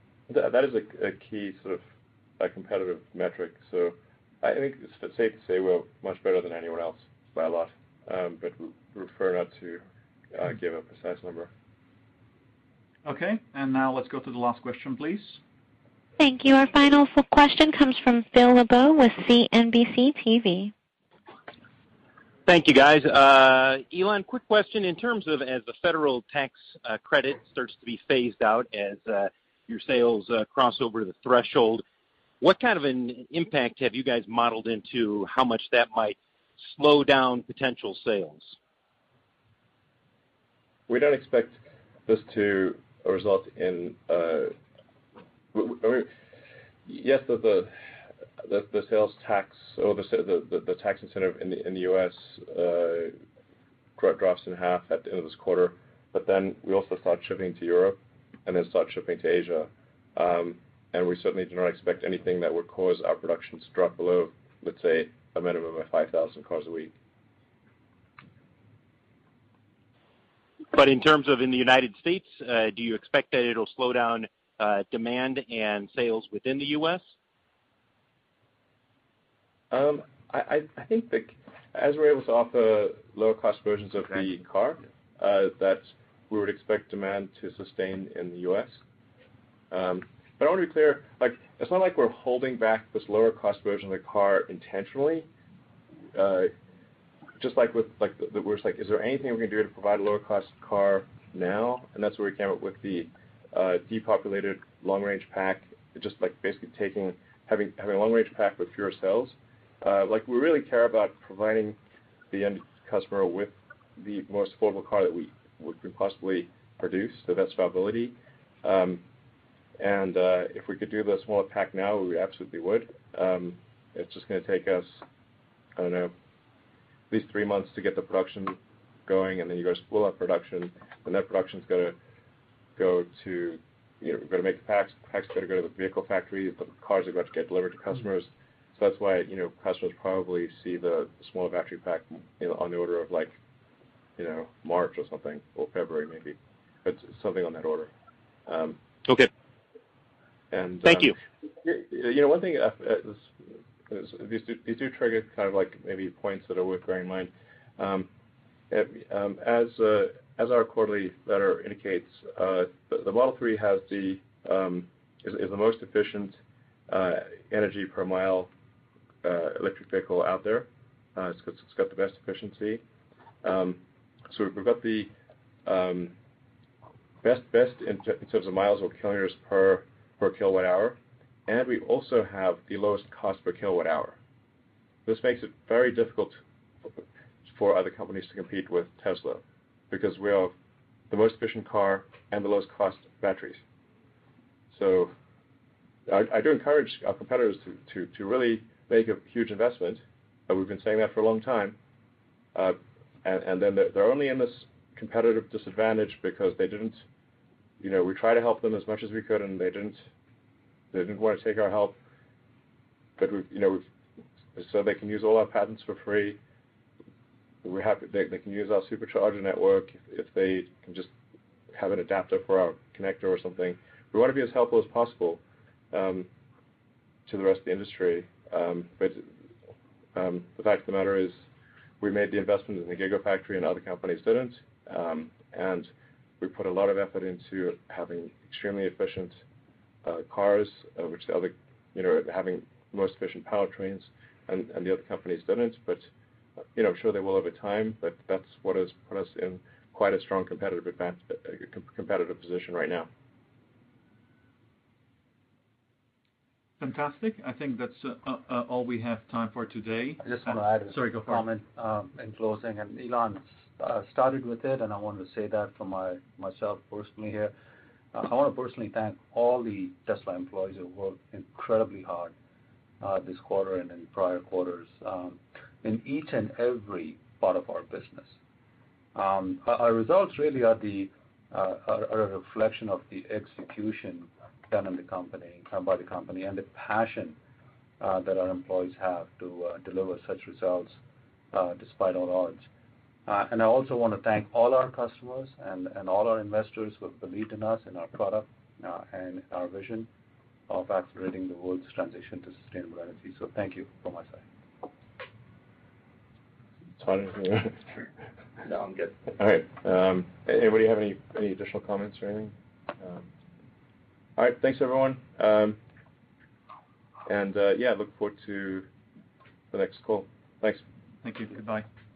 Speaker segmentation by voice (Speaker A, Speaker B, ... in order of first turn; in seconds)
Speaker A: 0.3-1.8, 2.4-11.5, 40.9-44.5, 45.5-46.1, 46.8-47.7, 48.4-53.1, 54.0-66.9, 79.7-88.8, 89.7-95.3, 96.1-96.5, 97.4-111.8, 112.3-119.0, 119.8-125.0, 125.8-126.1, 127.1-131.9, 132.8-143.3, 144.2-147.9, 148.4-148.8, 150.5-153.3, 153.9-158.1, 158.7-168.5, 169.2-172.8, 173.4-175.1, 175.6-176.1, 177.2-184.2, 185.1-186.4, 187.4-190.5, 191.1-193.6, 194.7-195.1, 196.1-201.8, 202.5-207.0, 207.8-210.0, 210.9-212.0, 213.2-213.8, 214.5-216.4, 217.6-221.1, 221.7-225.4, 225.9-226.3, 227.2-229.3, 230.1-231.4, 232.0-239.4, 240.0-246.1, 246.7-253.1, 307.0-308.1, 309.2-313.3, 314.4-315.8, 317.2-318.9, 319.7-320.8
Speaker B: 13.0-15.4, 256.8-261.4, 321.2-321.9
Speaker C: 16.2-20.7
Speaker D: 22.5-31.8, 32.4-38.6, 70.7-77.0, 150.8-151.1
Speaker E: 260.2-267.5, 268.1-272.3, 273.0-278.4, 279.1-287.4, 288.0-291.0, 291.5-292.7, 293.3-300.1, 300.7-304.4